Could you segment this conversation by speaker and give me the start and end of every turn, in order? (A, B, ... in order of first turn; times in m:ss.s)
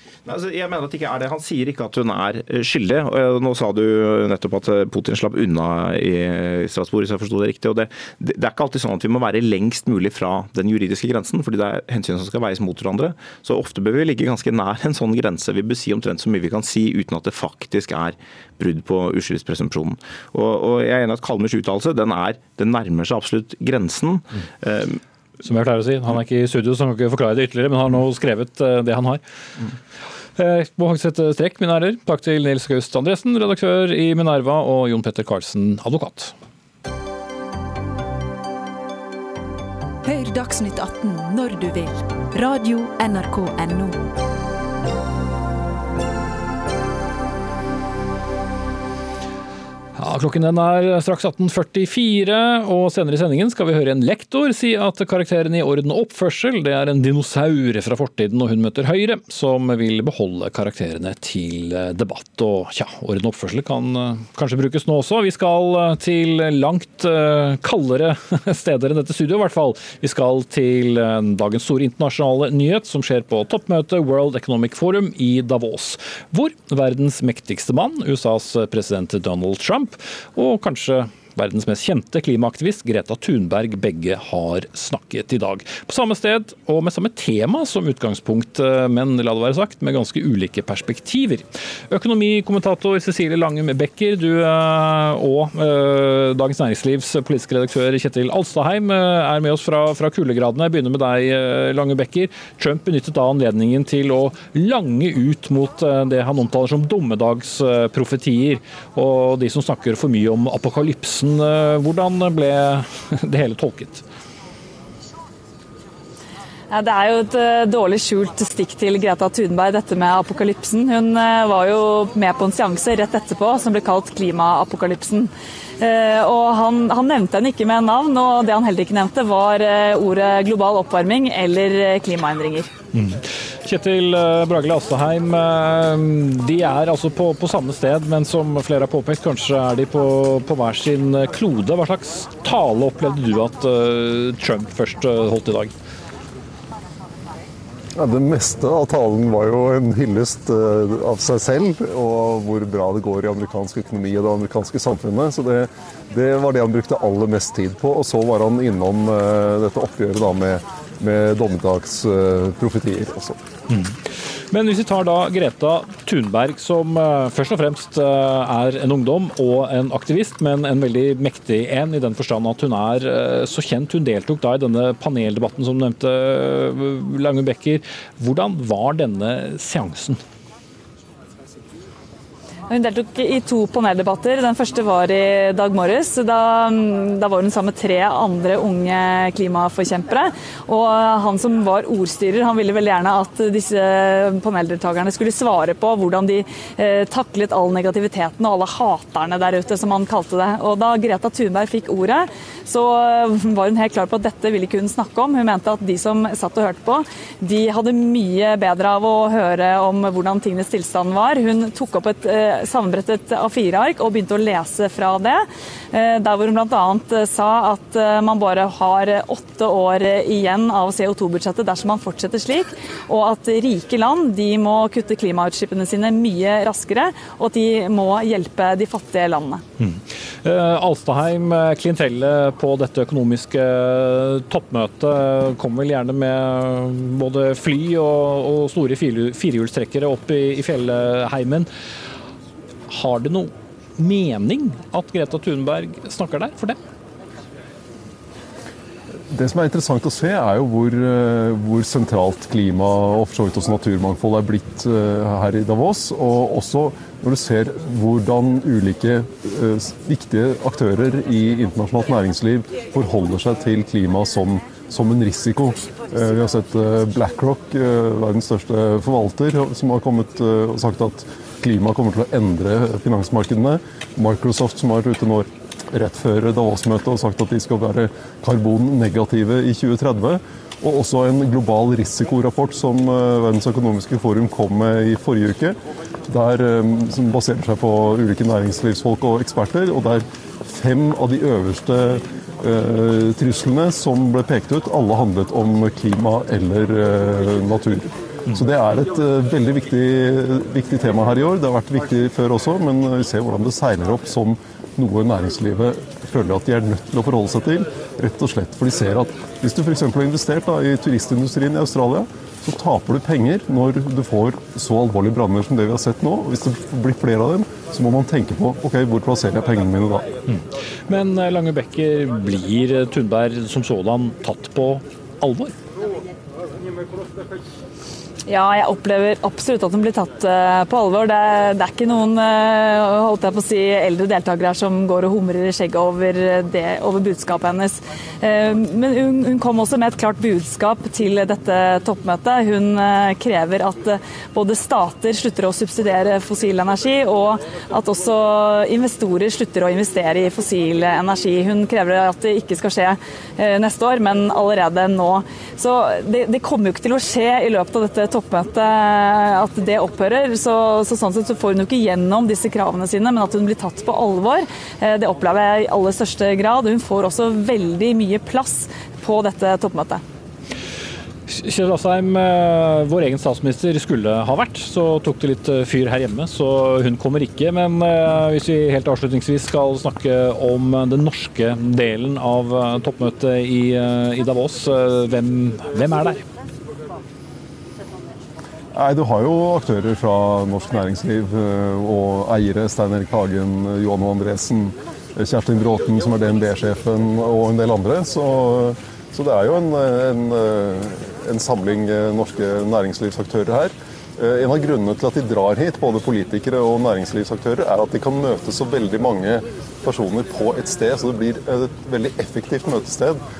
0:00.2-0:25.0 A
0:25.4-0:29.2 B
0:30.4-0:36.3 B
0:40.0-0:44.1 C
0:50.0-1:54.0 B
1:56.7-2:12.7 D
2:12.9-2:25.7 B
2:28.0-2:43.4 E
2:43.7-2:44.0 B
2:44.5-3:00.2 B
3:02.7-3:49.6 D
3:49.8-4:01.7 B
4:02.9-4:06.8 B
4:09.3-4:45.7 E
4:46.3-5:20.3 E
5:20.5-5:25.8 B
5:28.5-6:10.2 D
6:11.5-6:26.4 B
6:28.9-6:53.4 E